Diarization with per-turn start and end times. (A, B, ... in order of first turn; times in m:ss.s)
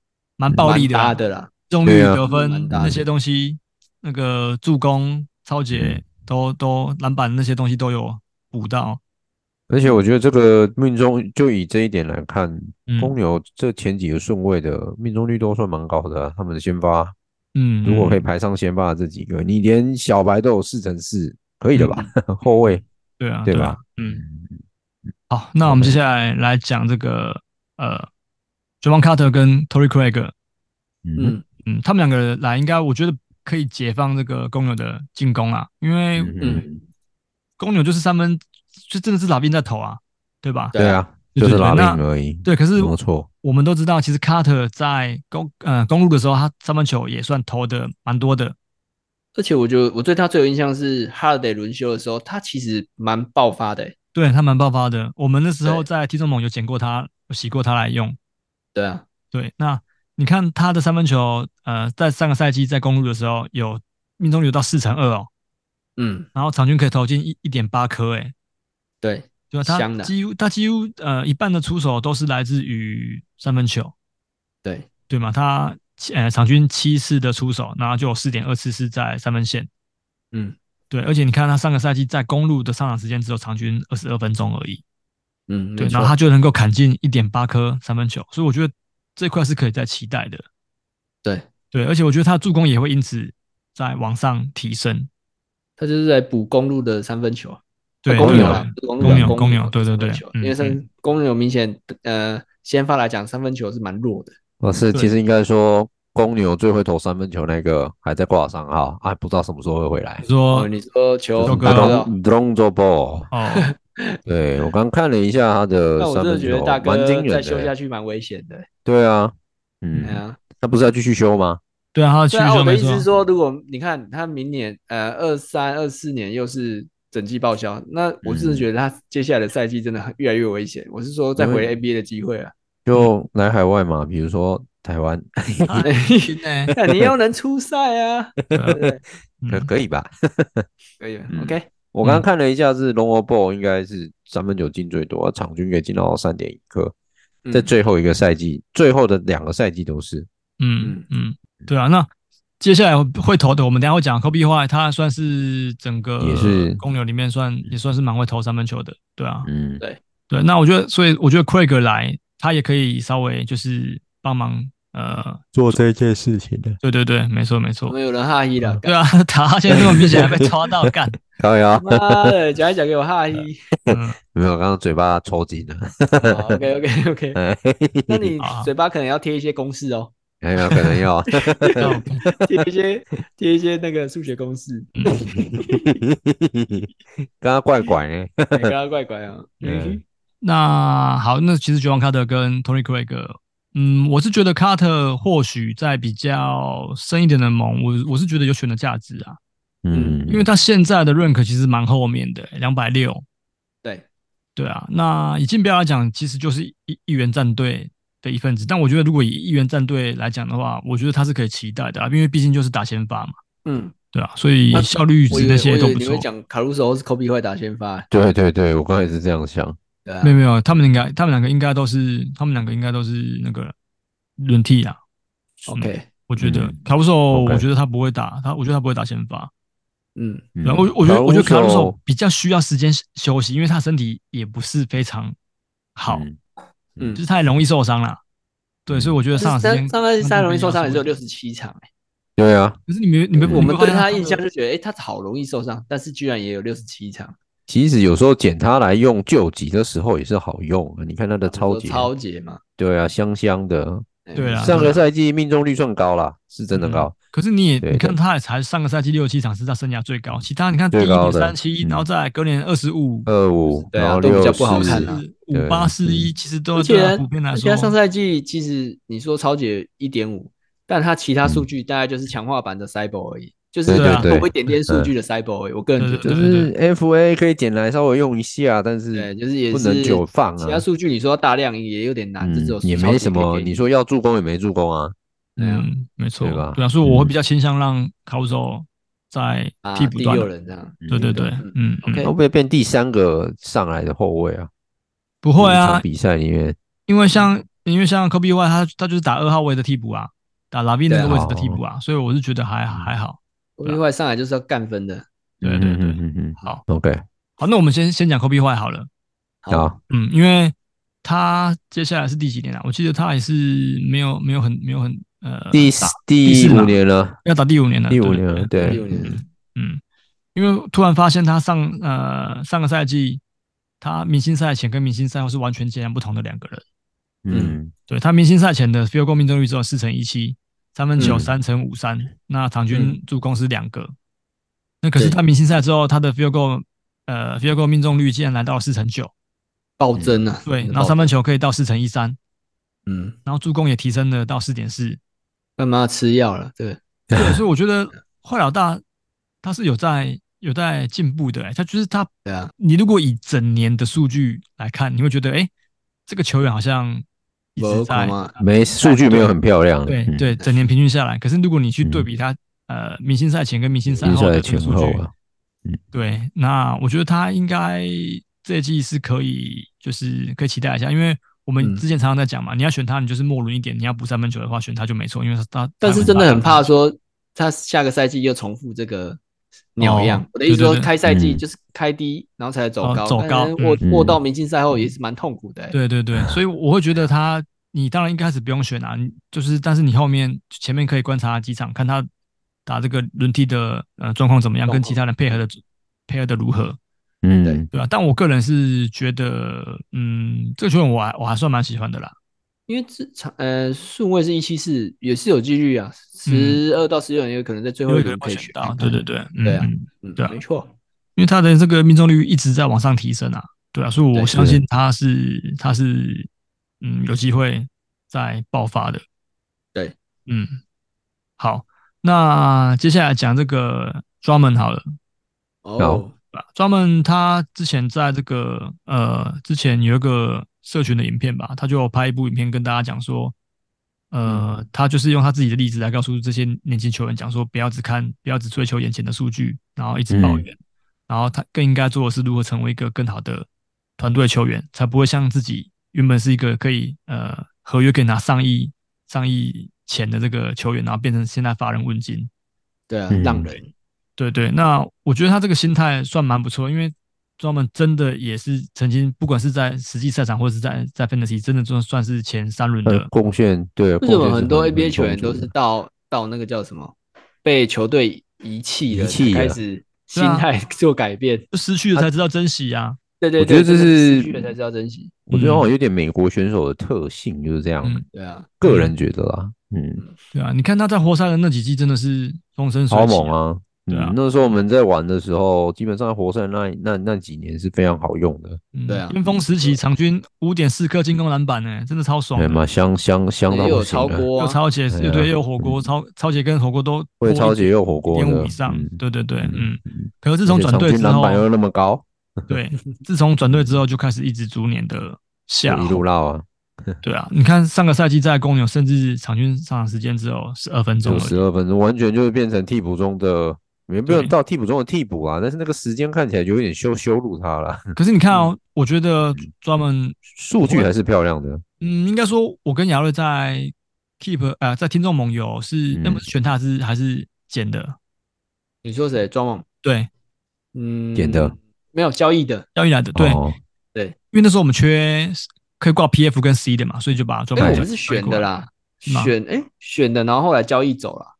0:00.4-0:01.2 A
0:00.6-0:01.5 B
0:01.7-0:09.0 A
0:01.8-0:02.2 C
0:02.2-0:03.0 B
0:05.7-0:06.0 C
0:09.7-0:17.1 C
0:12.9-0:13.1 A
0:17.5-0:18.2 A
0:17.8-0:22.8 C
0:21.7-0:22.0 A
0:23.2-0:24.2 A
0:23.4-0:24.6 C
0:25.3-0:28.1 A
0:25.6-0:26.0 C
0:28.8-0:30.3 A
0:31.0-0:31.4 C
0:31.2-0:31.4 B
0:31.6-0:36.4 A
0:36.2-0:36.8 C
0:36.4-0:36.6 B
0:37.6-0:40.7 A
0:40.7-0:41.0 B
0:40.7-0:43.3 C
0:41.3-0:48.5 A
0:49.3-0:53.9 B
0:54.1-0:58.2 A
0:58.7-0:59.0 B
0:59.3-1:05.3 A
1:06.0-1:06.3 B
1:06.3-1:08.3 A
1:09.0-1:10.1 B
1:09.5-1:13.9 A
1:14.6-1:14.9 B
1:15.1-1:19.7 A
1:20.9-1:24.8 A
1:25.5-1:26.1 B
1:25.8-1:30.4 A
1:31.7-1:35.1 A
1:35.8-1:44.3 B
1:38.0-1:40.8 A
1:38.2-1:39.4 C
1:44.6-1:50.2 C
1:50.2-1:50.7 A
1:50.5-1:52.1 B
1:51.4-1:53.3 C
1:51.4-1:52.0 A
1:53.3-1:53.7 A
1:53.5-1:54.2 B
1:54.2-1:57.7 C
1:56.0-1:58.6 B
1:58.8-2:01.6 C
2:00.0-2:00.4 B
2:01.9-2:03.0 A
2:02.3-2:12.5 B
2:08.2-2:08.7 C
2:11.4-2:11.6 C
2:12.8-2:15.9 C
2:15.7-2:16.7 A
2:15.8-2:19.0 B
2:16.8-2:17.1 C
2:18.5-2:18.8 A
2:18.6-2:18.9 C
2:19.4-2:19.7 A
2:19.5-2:20.7 C
2:21.0-2:21.7 B
2:21.3-2:26.9 C
2:27.5-2:30.3 C
2:30.6-2:32.1 A
2:32.6-2:39.5 A
2:36.2-2:36.8 C
2:39.4-2:39.8 C
2:40.3-2:45.4 A
2:45.5-2:46.8 C
2:46.8-2:48.0 A
2:47.9-2:49.0 B
2:48.8-2:51.2 A
2:49.8-2:50.3 C
2:51.3-2:52.3 C
2:51.8-2:53.6 B
2:53.9-2:56.6 C
2:53.9-2:54.2 A
2:56.2-2:57.4 B
2:57.3-2:58.3 C
2:58.1-3:00.1 B
2:58.4-2:58.7 A
3:00.4-3:02.5 C
3:01.4-3:06.0 B
3:01.8-3:02.2 A
3:05.0-3:05.3 A
3:05.3-3:06.9 C
3:07.4-3:08.7 C
3:08.5-3:10.0 B
3:09.6-3:10.0 C
3:10.4-3:19.4 A
3:19.8-3:20.5 C
3:19.9-3:20.2 B
3:20.3-3:23.2 A
3:24.6-3:33.4 A
3:33.6-3:33.9 B
3:34.1-3:36.2 A
3:34.7-3:38.1 B
3:38.1-3:39.8 C
3:40.0-3:40.4 B
3:40.2-3:43.7 A
3:44.4-3:45.0 A
3:45.6-3:46.1 B
3:45.7-3:49.5 A
3:46.4-3:46.8 C
3:47.3-3:47.6 C
3:50.2-3:50.5 B
3:50.6-3:52.0 C
3:50.6-3:55.3 A
3:56.0-3:56.2 A
3:56.1-3:56.4 C
3:57.2-3:58.2 A
3:58.8-4:01.1 A
3:58.9-3:59.2 C
3:59.4-4:01.8 B
4:02.4-4:02.8 C
4:02.9-4:04.4 A
4:03.4-4:03.7 C
4:03.5-4:07.3 B
4:07.7-4:12.1 C
4:11.5-4:12.6 B
4:12.8-4:14.0 C
4:14.2-4:15.0 B
4:14.3-4:15.0 A
4:14.6-4:17.1 C
4:16.7-4:23.3 A
4:17.8-4:18.2 C
4:20.9-4:22.0 C
4:23.3-4:26.3 C
4:23.9-4:25.2 B
4:24.4-4:28.0 A
4:26.8-4:36.3 B
4:33.9-4:35.1 C
4:33.9-4:34.3 A
4:36.0-4:36.7 A
4:36.2-4:40.8 C
4:39.1-4:43.8 B
4:42.4-4:45.1 C
4:45.6-4:45.9 B
4:45.6-4:50.5 A
4:46.4-4:47.3 C
4:49.8-4:52.3 B
4:51.0-4:51.4 C
4:51.1-4:52.3 A
4:52.2-4:54.7 C
4:55.4-4:56.0 A
4:55.6-4:56.8 C
4:57.1-5:04.0 A
5:01.1-5:01.3 B
5:01.2-5:01.8 C
5:03.8-5:05.2 B
5:05.6-5:07.2 C
5:05.6-5:06.8 A
5:07.6-5:09.1 A
5:09.6-5:09.9 B
5:09.7-5:10.0 C
5:10.1-5:20.0 A
5:15.7-5:17.4 C
5:18.1-5:19.3 C
5:18.8-5:19.4 B
5:20.5-5:23.4 A
5:24.0-5:26.8 A
5:27.4-5:27.9 C
5:27.5-5:27.8 B
5:28.1-5:34.1 A
5:31.2-5:31.5 C
5:35.0-5:39.3 A
5:40.0-5:41.3 B
5:40.6-5:42.4 A
5:43.1-5:43.4 B
5:43.4-5:45.2 A
5:45.8-5:47.0 B
5:47.3-5:47.6 C
5:47.3-5:49.0 A
5:49.6-5:55.7 A
5:52.4-5:52.7 B
5:56.3-5:57.2 A
5:57.7-5:59.5 A
5:57.8-5:58.5 B
5:58.6-6:00.5 C
6:00.0-6:05.2 A
6:04.2-6:05.3 C
6:06.1-6:16.8 A
6:16.0-6:19.4 B
6:20.0-6:26.0 B
6:20.0-6:21.1 A
6:21.2-6:21.6 C
6:23.0-6:24.0 A
6:24.0-6:24.4 C
6:25.9-6:32.3 A
6:32.8-6:37.0 A
6:34.9-6:35.2 B
6:37.4-6:37.9 C
6:37.9-6:42.3 A
6:42.9-6:50.9 B
6:46.4-6:46.8 A
6:48.1-6:50.6 A
6:51.4-6:56.5 A
6:54.5-6:54.8 C
6:57.0-6:59.2 A
7:00.5-7:00.8 A
7:01.6-7:05.0 A
7:05.8-7:06.3 B
7:06.0-7:06.2 C
7:06.5-7:13.5 A
7:14.3-7:20.8 A
7:20.3-7:20.6 C
7:21.3-7:23.7 A
7:24.2-7:32.5 A
7:33.1-7:33.9 B
7:33.3-7:33.7 C
7:34.4-7:43.3 A
7:43.0-7:45.7 C
7:44.2-7:51.6 B
7:49.1-7:49.8 C
7:50.3-7:50.7 A
7:51.7-7:53.2 A
7:53.4-7:55.4 B
7:53.6-7:54.7 C
7:55.5-7:58.2 C
7:55.5-7:55.9 A
7:58.3-7:58.7 B
7:58.8-8:00.2 C
7:58.8-7:59.1 A
8:00.5-8:03.5 A
8:03.1-8:08.8 C
8:04.1-8:04.4 A
8:08.9-8:12.8 A
8:09.1-8:09.9 B
8:12.6-8:14.5 C
8:13.7-8:14.8 B
8:14.6-8:21.6 A
8:15.1-8:16.1 C
8:17.4-8:22.7 C
8:22.7-8:26.2 A
8:25.8-8:27.2 C
8:27.2-8:31.6 A
8:31.2-8:38.1 C
8:34.2-8:34.5 A
8:38.2-8:41.1 A
8:40.6-8:41.8 C
8:42.0-8:48.2 A
8:46.1-8:46.5 C
8:49.0-8:49.8 B
8:50.0-8:50.3 A
8:50.9-8:52.8 B
8:51.4-8:51.7 C
8:53.0-8:53.6 A
8:53.3-8:53.8 C
8:54.5-8:58.7 A
8:57.8-9:01.5 B
8:57.8-8:58.0 C
8:59.2-8:59.5 A